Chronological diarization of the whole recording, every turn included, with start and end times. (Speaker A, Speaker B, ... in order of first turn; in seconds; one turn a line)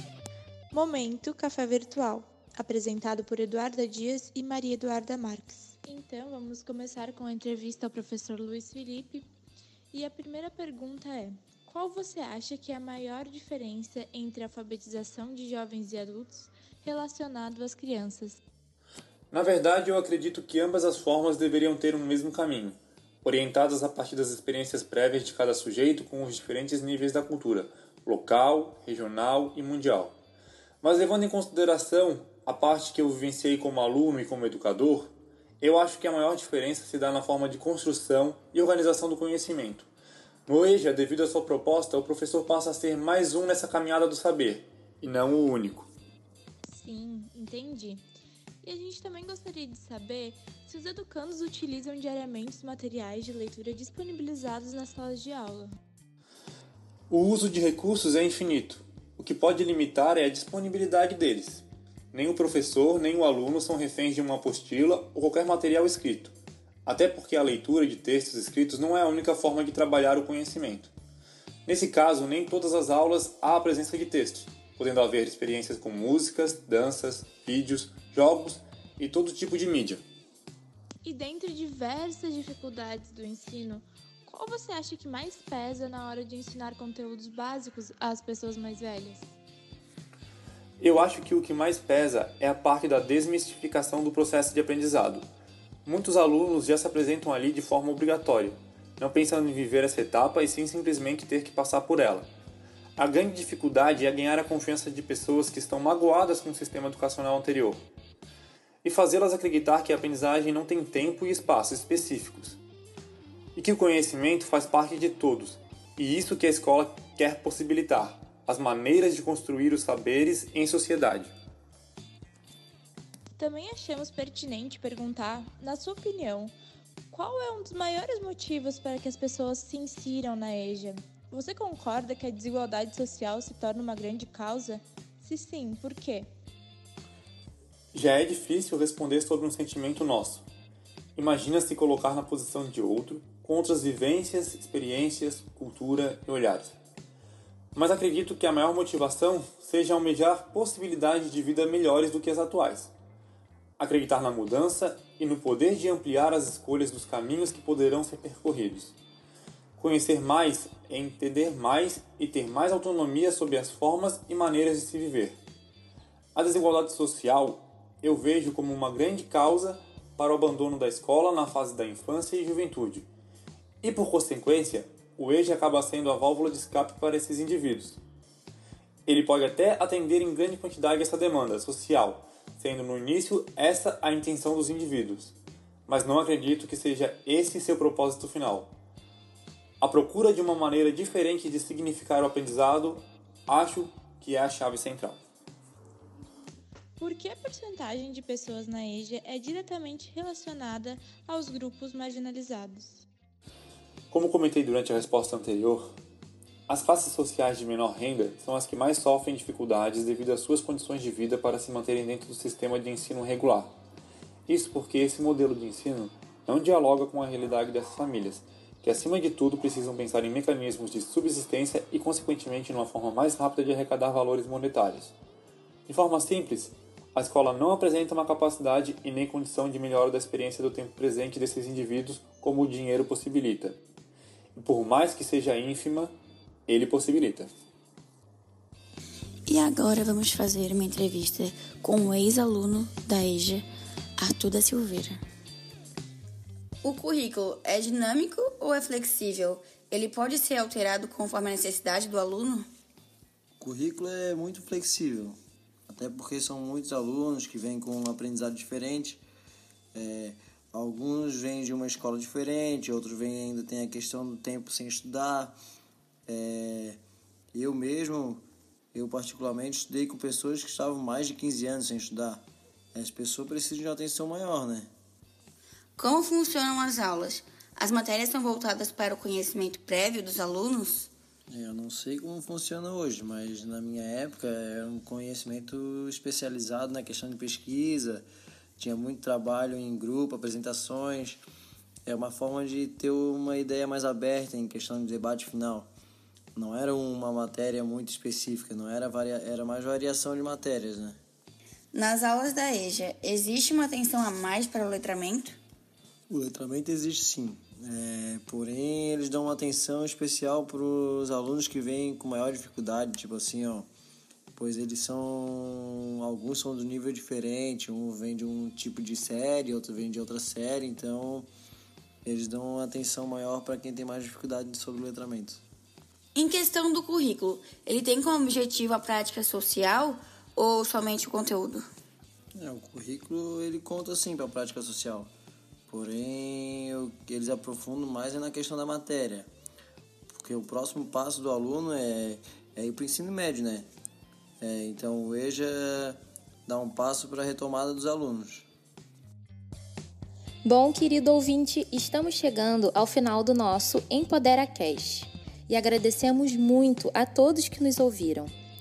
Speaker A: 0.7-9.2
Speaker A: 9.9-18.4
Speaker B: 19.3-30.1
Speaker B: 30.8-39.9
Speaker B: 40.5-45.9
Speaker A: 46.7-48.0
Speaker A: 48.6-55.8
Speaker B: 57.1-66.3
Speaker B: 66.8-70.9
Speaker B: 71.7-80.0
Speaker A: 81.0-89.3
Speaker B: 90.8-95.2
Speaker B: 95.8-102.3
Speaker B: 103.0-107.8
Speaker B: 108.8-112.6
Speaker B: 113.5-121.3
Speaker A: 123.4-126.5
Speaker A: 127.1-136.3
Speaker B: 137.9-140.4
Speaker B: 141.2-146.7
Speaker B: 147.7-152.9
Speaker B: 153.8-158.9
Speaker B: 159.8-165.3
Speaker B: 166.3-173.1
Speaker B: 173.8-178.0
Speaker B: 179.1-185.3
Speaker B: 185.9-188.7
Speaker B: 189.8-195.2
Speaker A: 197.0-203.0
Speaker B: 204.1-205.9
Speaker B: 206.7-213.7
Speaker B: 214.5-225.1
Speaker B: 225.9-233.8
Speaker B: 234.6-236.1
Speaker B: 236.7-237.5
Speaker C: 239.5-243.6
Speaker C: 244.2-245.2
Speaker C: 246.8-252.7
Speaker D: 253.6-259.2
Speaker D: 259.9-265.6
Speaker D: 266.3-267.0
Speaker D: 267.5-268.4
Speaker D: 268.9-274.9
Speaker C: 276.0-281.1
Speaker D: 281.5-288.3
Speaker D: 288.8-291.4
Speaker D: 292.1-295.9
Speaker D: 296.5-301.2
Speaker C: 301.9-305.6
Speaker D: 306.3-313.9
Speaker D: 314.6-321.5
Speaker D: 322.2-325.6
Speaker C: 326.3-331.9
Speaker D: 332.6-335.3
Speaker D: 335.9-339.5
Speaker D: 340.3-343.9
Speaker D: 344.6-348.7
Speaker E: 350.6-358.5